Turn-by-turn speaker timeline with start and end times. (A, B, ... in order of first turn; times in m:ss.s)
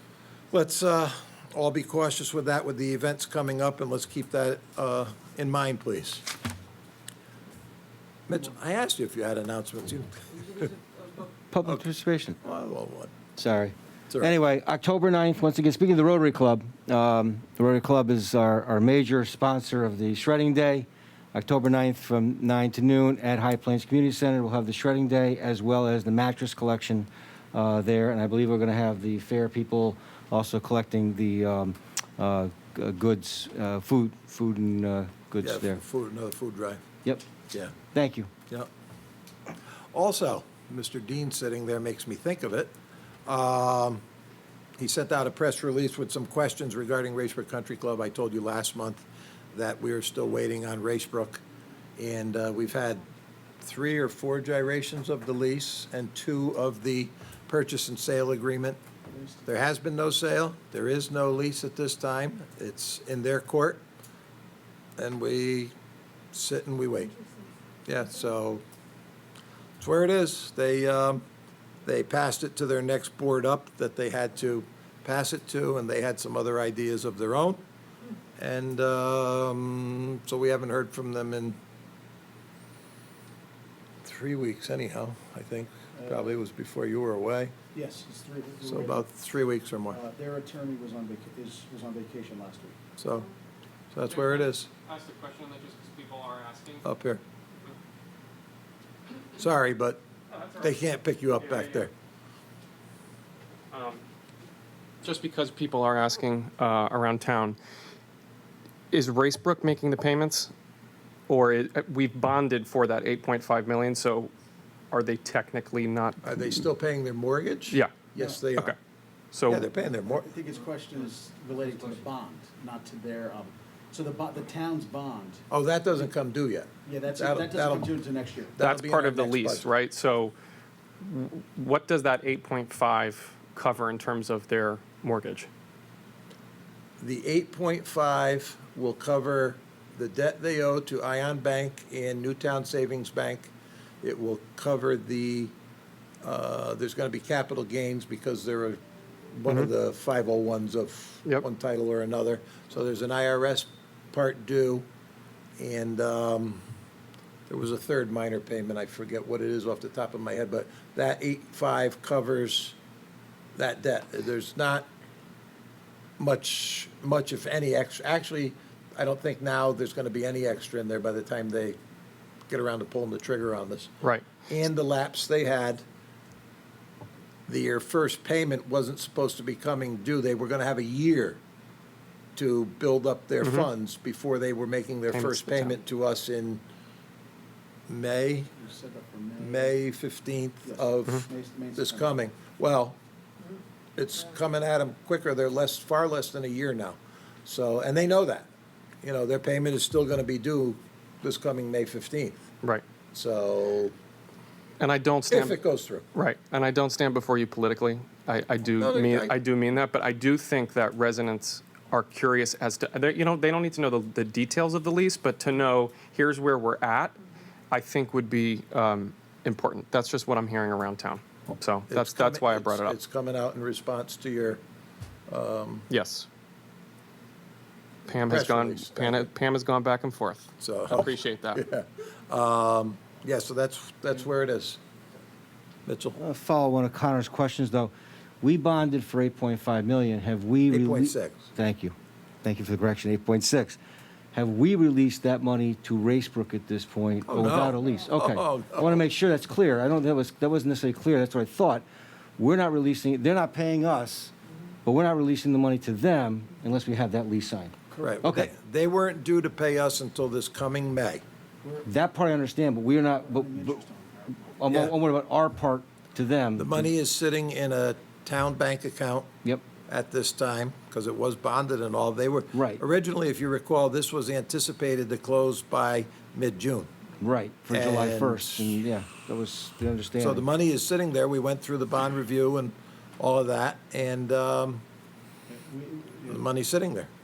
0:00.5-0:06.3 A
0:08.3-0:10.7 A
0:11.5-0:12.4 B
0:12.4-0:13.1 A
0:13.4-0:35.8 B
0:35.4-0:36.8 A
0:37.9-0:38.3 B
0:39.9-0:42.7 A
0:43.3-0:44.0 A
0:44.8-0:51.4 A
0:52.0-0:53.0 A
0:53.6-0:58.8 A
0:59.4-1:03.8 A
1:05.0-1:05.7 A
1:06.3-1:07.2 A
1:07.9-1:08.6 A
1:09.8-1:11.2 A
1:11.8-1:17.6 A
1:18.4-1:21.6 A
1:24.0-1:27.5 A
1:26.0-1:26.3 C
1:27.7-1:29.0 C
1:28.7-1:30.0 A
1:29.9-1:32.8 C
1:33.0-1:33.3 A
1:33.9-1:34.7 A
1:34.1-1:36.9 D
1:36.8-1:37.2 A
1:39.4-1:40.0 A
1:40.3-1:40.6 D
1:40.6-1:41.9 A
1:41.4-1:41.9 D
1:43.7-1:44.0 D
1:45.0-1:47.6 D
1:48.9-1:50.5 D
1:51.3-1:54.3 D
1:54.9-1:56.2 D
1:56.2-1:58.8 A
1:59.3-1:59.7 D
1:59.5-2:00.3 A
2:00.0-2:05.4 C
2:05.5-2:07.9 A
2:06.9-2:08.6 C
2:08.6-2:09.7 A
2:08.6-2:10.4 D
2:11.0-2:15.5 D
2:17.0-2:25.5 A
2:26.2-2:28.8 A
2:29.3-2:34.9 A
2:35.6-2:36.6 A
2:37.5-2:42.8 A
2:43.6-2:44.9 A
2:46.2-2:51.8 A
2:52.5-2:53.9 A
2:54.0-2:54.3 D
2:54.5-2:55.8 A
2:57.5-3:01.4 A
3:02.4-3:06.6 A
3:03.4-3:03.7 D
3:05.1-3:05.8 D
3:07.9-3:08.5 A
3:08.6-3:09.8 C
3:09.4-3:13.0 A
3:10.6-3:12.2 C
3:14.0-3:18.5 A
3:19.0-3:22.4 A
3:23.1-3:23.9 A
3:24.8-3:25.6 D
3:25.3-3:26.1 A
3:26.1-3:37.2 D
3:28.8-3:29.4 A
3:37.7-3:43.0 D
3:41.9-3:44.6 A
3:45.3-3:45.9 A
3:45.9-3:46.3 D
3:48.1-3:51.6 D
3:48.2-3:49.3 A
3:50.6-3:54.8 A
3:55.9-3:56.2 A
3:56.2-4:03.8 B
4:00.7-4:01.5 A
4:04.3-4:11.8 B
4:07.3-4:09.0 A
4:12.4-4:14.3 B
4:14.8-4:18.5 B
4:18.0-4:21.2 A
4:21.8-4:23.8 B
4:23.2-4:24.4 C
4:24.4-4:26.9 B
4:24.7-4:24.9 A
4:26.6-4:29.3 A
4:29.9-4:36.9 A
4:32.5-4:32.8 B
4:37.2-4:40.4 B
4:37.7-4:38.8 A
4:40.2-4:44.8 A
4:45.5-4:46.4 C
4:46.3-4:47.1 A